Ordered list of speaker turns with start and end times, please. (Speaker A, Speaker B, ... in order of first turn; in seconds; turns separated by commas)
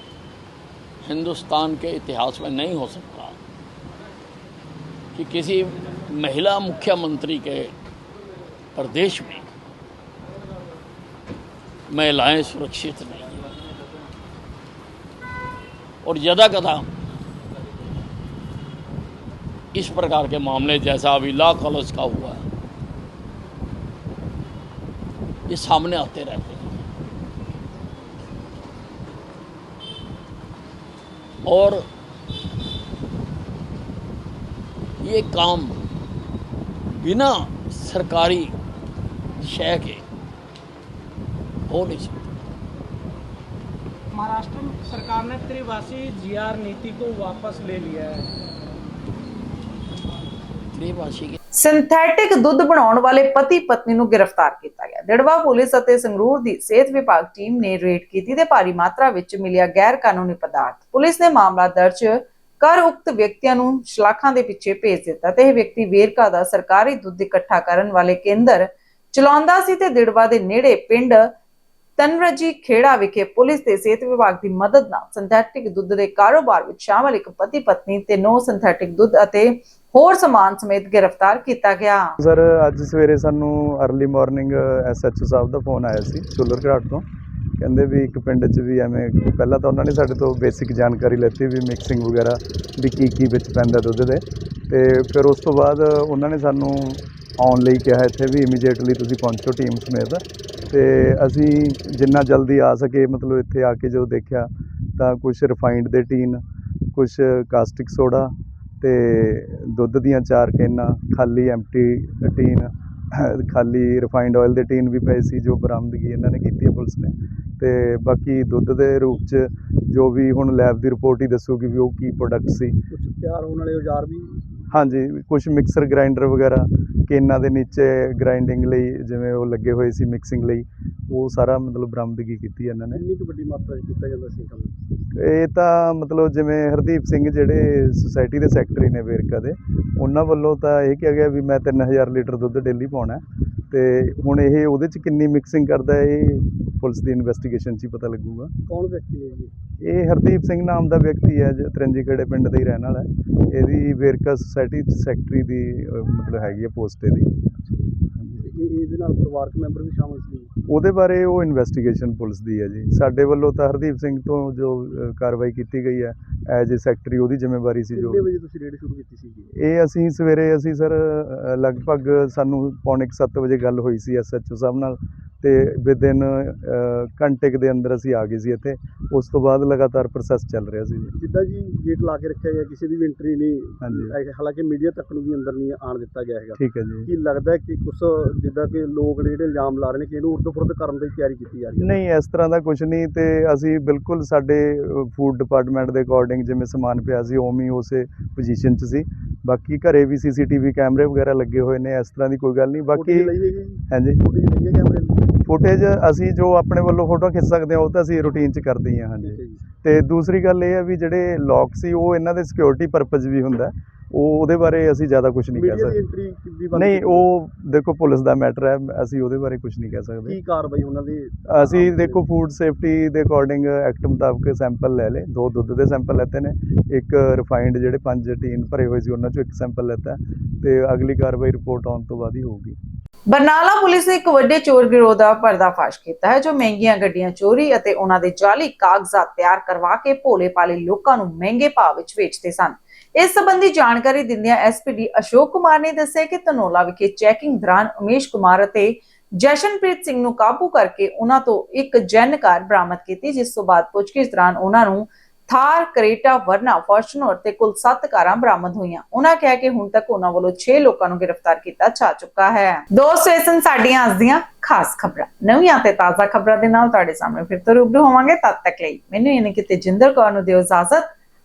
Speaker A: 1.0-3.4, Speaker A: 5.1-7.7, Speaker A: 8.7-9.5, Speaker A: 11.9-13.4, Speaker A: 16.0-16.9, Speaker A: 19.7-22.4, Speaker A: 25.5-26.8, Speaker A: 31.5-31.9, Speaker A: 35.0-35.8, Speaker A: 36.9-38.5, Speaker A: 39.4-40.0, Speaker A: 41.7-42.2, Speaker B: 44.1-48.3, Speaker A: 50.7-51.4, Speaker C: 51.6-71.3, Speaker C: 72.0-82.1, Speaker D: 82.2-87.0, Speaker D: 87.6-106.4, Speaker D: 106.9-122.8, Speaker E: 122.9-124.5, Speaker D: 124.7-133.1, Speaker E: 132.9-134.7, Speaker D: 135.2-148.5, Speaker E: 148.7-149.5, Speaker D: 149.8-157.4, Speaker D: 158.1-158.5, Speaker E: 158.4-160.5, Speaker D: 160.7-168.2, Speaker E: 167.9-169.5, Speaker D: 169.5-181.1, Speaker E: 181.2-192.0, Speaker D: 183.8-184.2, Speaker D: 186.5-187.1, Speaker D: 191.8-203.3, Speaker E: 202.9-205.3, Speaker D: 203.9-204.3, Speaker D: 205.4-216.0, Speaker E: 209.2-209.6, Speaker E: 215.5-217.3, Speaker D: 216.7-220.4, Speaker E: 220.2-222.3, Speaker D: 221.5-232.8, Speaker C: 233.3-271.1